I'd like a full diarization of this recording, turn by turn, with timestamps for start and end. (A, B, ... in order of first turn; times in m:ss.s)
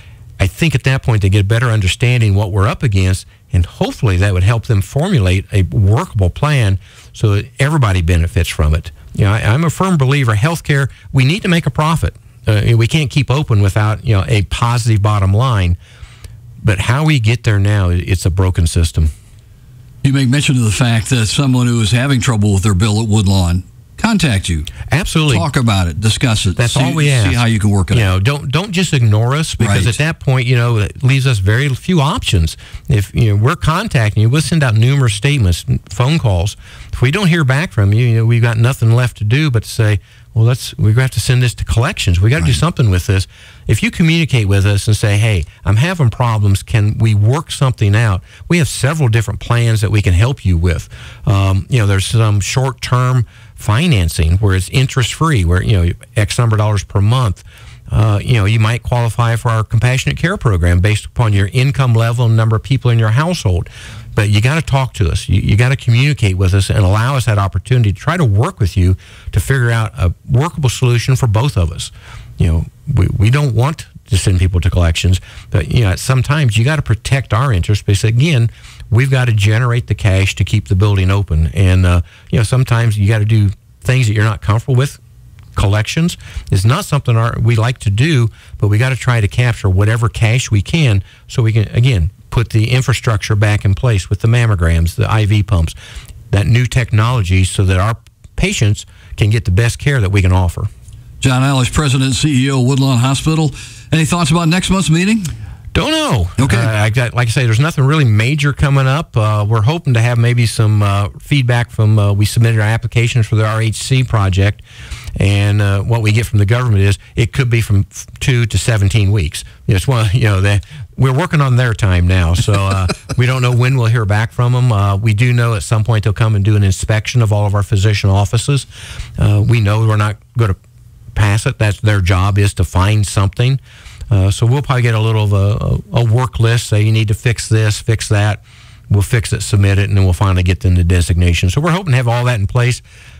0:00.4-0:15.8 A
0:16.6-0:19.1 A
0:20.0-0:24.7 B
0:24.9-0:25.5 A
0:25.3-0:28.1 B
0:26.6-0:27.4 A
0:27.9-1:25.0 A
0:29.6-0:30.0 B
1:25.6-1:35.8 A
1:36.3-1:40.7 A
1:41.2-1:45.3 B
1:45.8-1:54.6 A
1:46.4-1:46.7 B
1:55.2-2:08.7 A
2:09.2-2:10.6 A
2:11.1-2:22.8 A